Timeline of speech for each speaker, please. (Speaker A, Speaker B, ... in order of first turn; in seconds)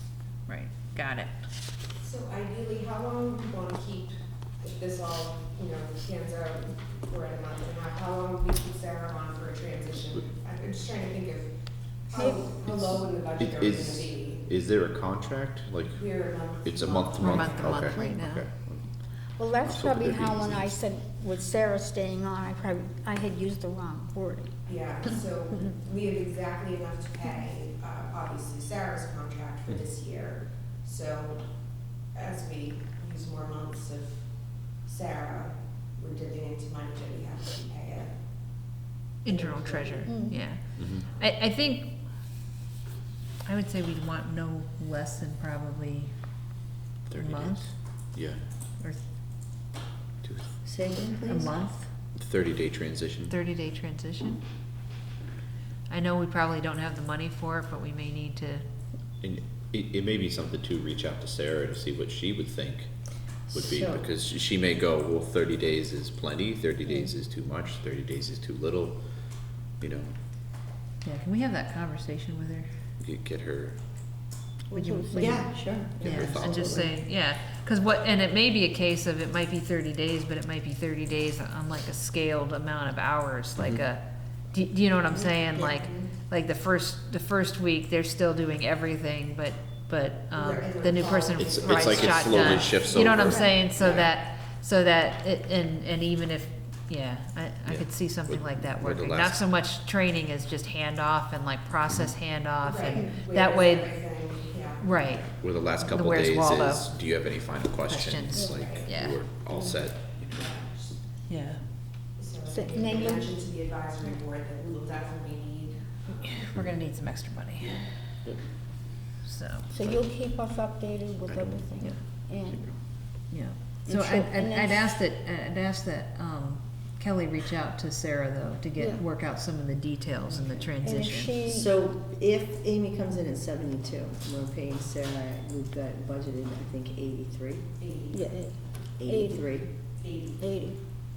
Speaker A: 0.5-1.3, 17.2-18.4, 39.2-42.0, 43.5-46.1, 47.2-47.7, 51.3-51.9, 53.3-54.4, 55.9-58.6, 71.0-72.7, 74.7-104.0, 104.8-105.3, 105.8-106.9, 107.9-109.2, 111.3-111.6, 116.2-117.8, 119.2-119.7, 123.3-131.4
Speaker B: 2.0-11.5, 12.1-14.4, 16.1-17.9, 24.7-31.4, 32.1-38.1, 39.3-40.1, 90.4-91.8, 102.8-104.8, 110.5-110.7, 112.2-115.8, 137.8-138.2
Speaker C: 12.1-12.7, 17.9-18.2, 19.4-24.6, 40.0-40.4, 74.7-75.5, 108.3-108.6, 112.5-113.4, 119.7-122.6, 123.9-125.0, 128.8-129.1, 130.8-131.7, 138.1-139.5, 140.4-140.8
Speaker D: 13.4-18.9, 19.6-20.8, 40.8-41.0, 47.1-48.4, 50.2-50.5, 52.1-53.4, 59.2-62.9, 63.5-69.0, 69.8-70.1, 73.0-73.8, 76.0-76.8, 91.4-94.1, 97.7-99.4, 105.3-110.5, 121.4-122.7
Speaker E: 50.6-51.5, 63.5-64.0, 75.2-76.9, 131.4-137.7, 139.0-139.7